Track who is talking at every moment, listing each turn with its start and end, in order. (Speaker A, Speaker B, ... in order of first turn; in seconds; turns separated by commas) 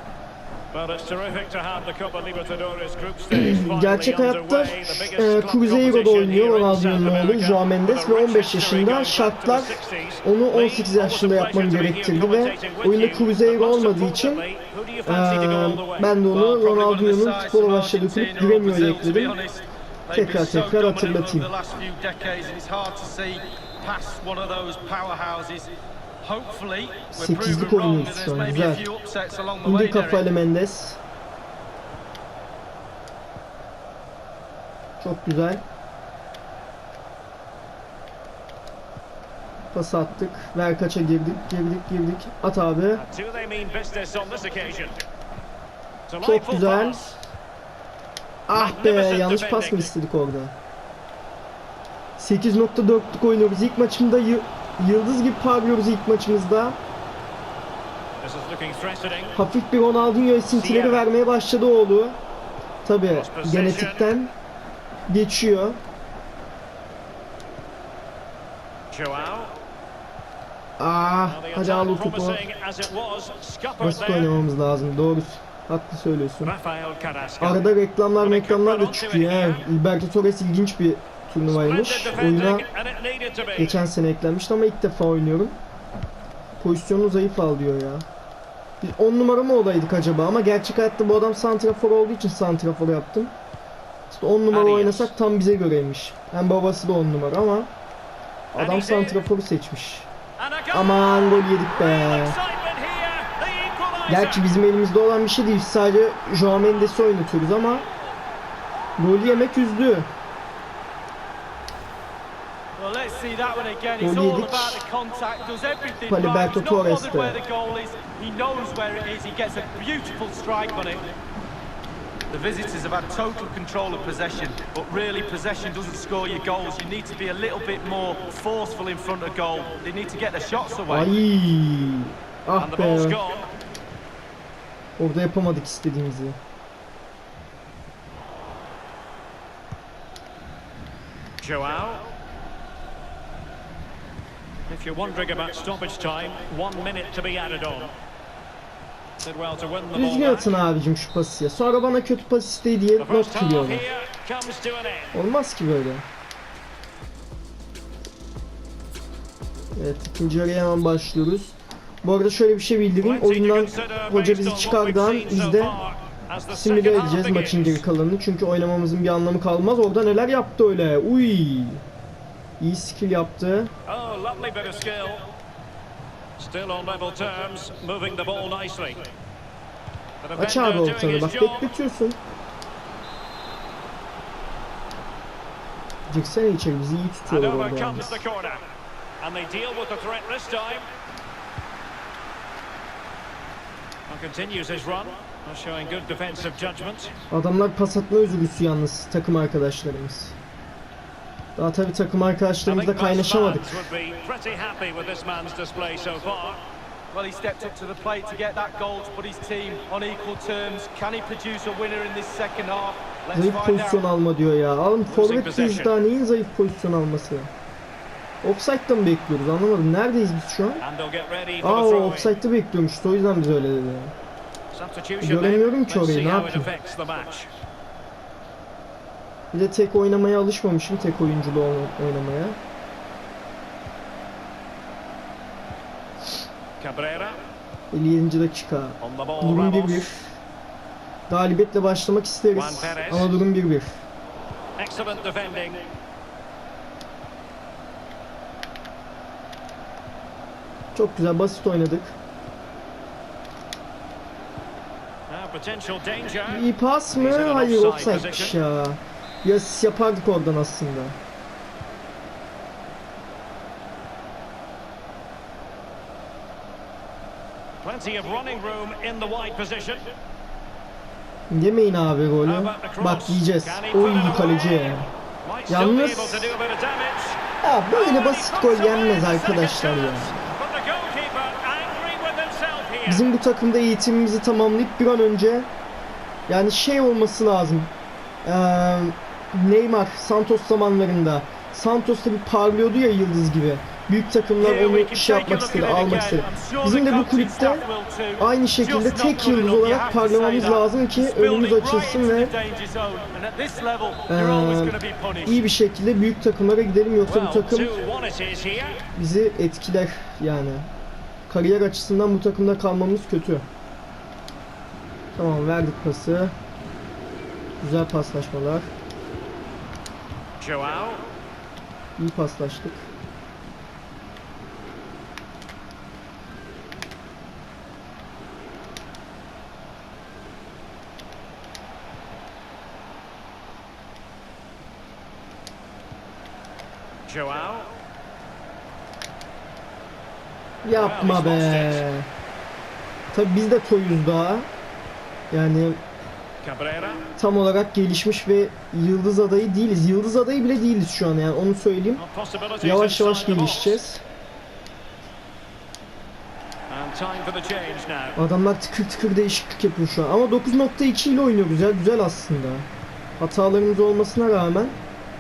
Speaker A: 0.7-16.1, Speaker B: 3.3-14.4, Speaker B: 15.1-19.4, Speaker C: 16.3-25.7, Speaker B: 20.1-21.5, Speaker C: 26.2-30.3, Speaker B: 27.1-28.9, Speaker B: 29.6-31.0, Speaker B: 35.0-35.6, Speaker B: 39.7-43.0, Speaker A: 43.0-45.0, Speaker A: 46.1-47.2, Speaker B: 46.2-47.0, Speaker B: 48.5-50.5, Speaker A: 48.5-49.9, Speaker B: 52.2-56.8, Speaker A: 58.2-59.4, Speaker B: 59.4-62.2, Speaker A: 60.5-61.1, Speaker B: 62.9-64.3, Speaker A: 63.1-64.1, Speaker B: 65.1-65.8, Speaker A: 68.9-69.6, Speaker B: 70.8-72.4, Speaker A: 71.3-74.4, Speaker B: 73.8-76.5, Speaker A: 76.4-77.7, Speaker B: 77.4-82.7, Speaker A: 78.2-79.7, Speaker A: 81.5-83.8, Speaker B: 83.6-85.6, Speaker B: 86.6-88.1, Speaker B: 88.8-93.3, Speaker B: 94.1-97.7, Speaker A: 94.5-95.1, Speaker B: 98.5-100.1, Speaker A: 98.6-99.2, Speaker A: 100.4-104.5, Speaker B: 100.7-102.4, Speaker B: 104.1-107.9, Speaker B: 109.0-110.1, Speaker C: 112.8-121.1, Speaker B: 114.0-114.8, Speaker B: 116.1-117.4, Speaker C: 122.3-131.2, Speaker B: 130.9-133.2, Speaker A: 132.6-133.5, Speaker B: 135.0-136.4, Speaker A: 141.4-142.1, Speaker A: 144.7-147.9, Speaker A: 149.2-150.6, Speaker B: 149.9-153.8, Speaker A: 153.0-155.2, Speaker B: 155.1-156.1, Speaker B: 159.8-165.8, Speaker A: 163.0-167.8, Speaker B: 166.5-171.8, Speaker B: 172.6-173.7, Speaker A: 173.9-175.3, Speaker A: 176.4-179.1, Speaker A: 180.2-181.7, Speaker B: 180.3-182.2, Speaker B: 186.1-188.2, Speaker A: 187.3-188.7, Speaker A: 189.2-190.9, Speaker A: 194.1-197.1, Speaker B: 197.3-200.4, Speaker B: 201.6-203.8, Speaker A: 202.6-206.7, Speaker C: 207.1-214.1, Speaker B: 213.3-217.5, Speaker A: 215.1-215.9, Speaker B: 218.4-220.8, Speaker A: 220.8-222.3, Speaker B: 221.6-224.1, Speaker A: 224.7-227.5, Speaker B: 225.2-226.7, Speaker B: 229.5-232.6, Speaker A: 236.8-237.4, Speaker B: 237.9-240.3, Speaker A: 239.0-240.1, Speaker B: 241.3-244.0, Speaker A: 242.5-243.3, Speaker A: 244.8-245.9, Speaker B: 250.9-252.2, Speaker A: 255.3-258.6, Speaker B: 256.5-261.2, Speaker A: 267.8-270.1, Speaker B: 271.5-275.1, Speaker A: 272.4-277.4, Speaker B: 275.7-276.5, Speaker B: 277.6-280.3, Speaker A: 277.9-283.2, Speaker B: 283.1-285.7, Speaker B: 286.5-287.9, Speaker B: 288.4-297.9, Speaker C: 294.6-305.6, Speaker B: 298.4-302.5, Speaker B: 304.3-308.0, Speaker A: 307.3-309.1, Speaker B: 309.1-310.9, Speaker B: 311.5-313.6, Speaker B: 315.4-316.5, Speaker B: 317.8-318.9, Speaker A: 320.6-321.3, Speaker B: 322.2-323.1, Speaker A: 337.3-338.0, Speaker B: 340.8-342.3, Speaker A: 340.9-342.1, Speaker B: 343.3-344.7, Speaker B: 345.5-346.0, Speaker A: 346.6-347.3, Speaker B: 347.4-352.2, Speaker A: 352.2-354.0, Speaker B: 352.8-354.2, Speaker A: 356.9-358.4, Speaker B: 358.4-362.9, Speaker B: 363.4-365.0